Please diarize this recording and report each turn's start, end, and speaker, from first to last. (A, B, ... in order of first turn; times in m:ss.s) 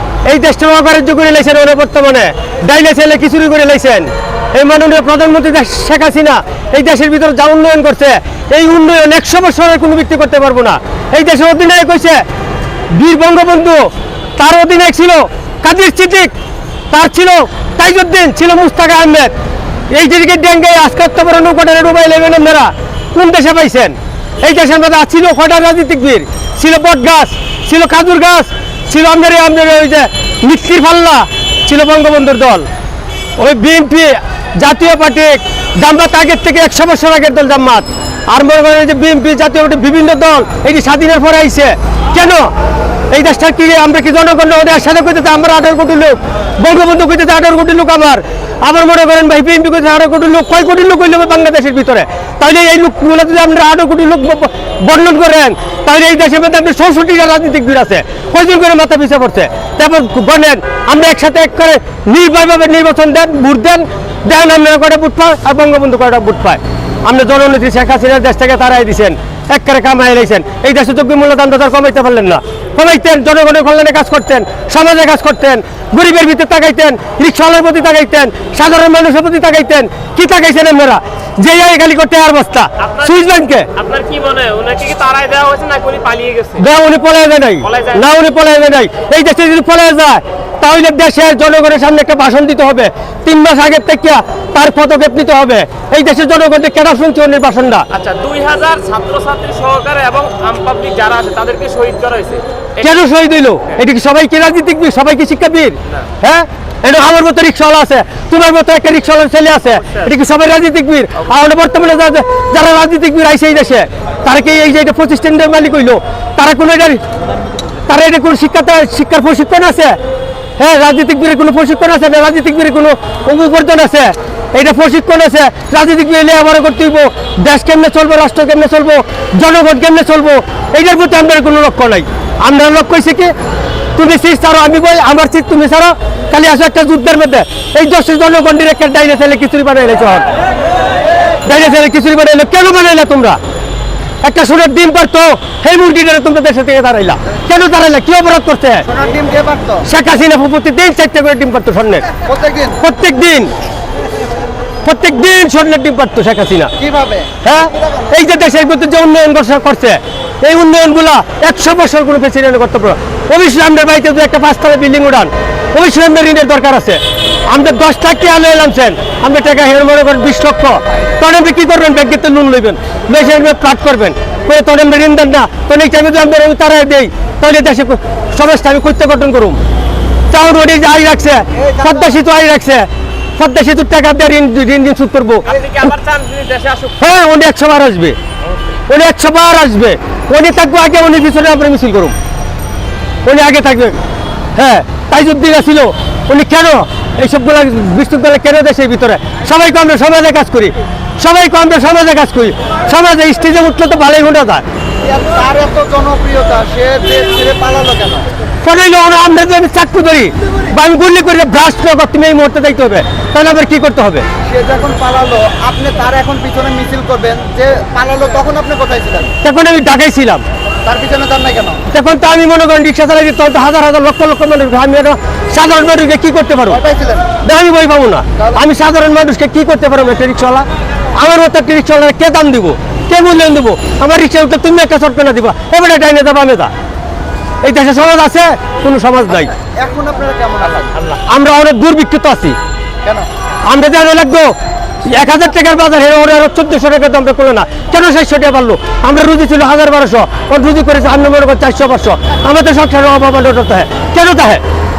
0:00.2-0:12.2 A
0:12.9-0:16.3 A
0:16.9-0:19.3 A
0:19.9-0:32.7 A
0:33.4-0:42.5 A
0:43.1-1:23.7 A
1:22.8-1:26.6 B
1:26.6-1:37.9 A
1:27.6-1:28.0 B
1:37.9-1:42.9 B
1:42.8-1:57.0 A
1:49.8-1:50.1 B
1:57.9-2:00.0 A
2:00.6-2:13.3 A
2:14.0-2:20.3 A
2:21.4-2:23.4 A
2:24.2-2:28.9 A
2:28.9-2:29.8 C
2:29.8-2:32.1 A
2:32.2-2:32.8 C
2:32.8-2:33.5 A
2:34.8-2:36.7 A
2:36.8-2:37.3 C
2:37.4-2:59.6 A
3:00.3-3:05.5 A
3:01.6-3:02.0 C
3:05.4-3:07.0 B
3:07.0-3:08.2 A
3:08.9-3:12.1 A
3:13.2-3:14.0 A
3:14.6-3:24.6 A
3:25.0-3:28.3 C
3:28.6-3:34.2 A
3:34.4-3:39.3 C
3:39.4-3:40.4 A
3:40.8-3:41.8 C
3:41.9-3:46.8 A
3:46.7-3:47.3 C
3:47.4-3:56.7 A
3:57.6-3:59.5 A
3:59.5-4:01.0 C
4:01.1-4:02.6 A
4:03.7-4:04.5 A
4:05.1-4:14.6 A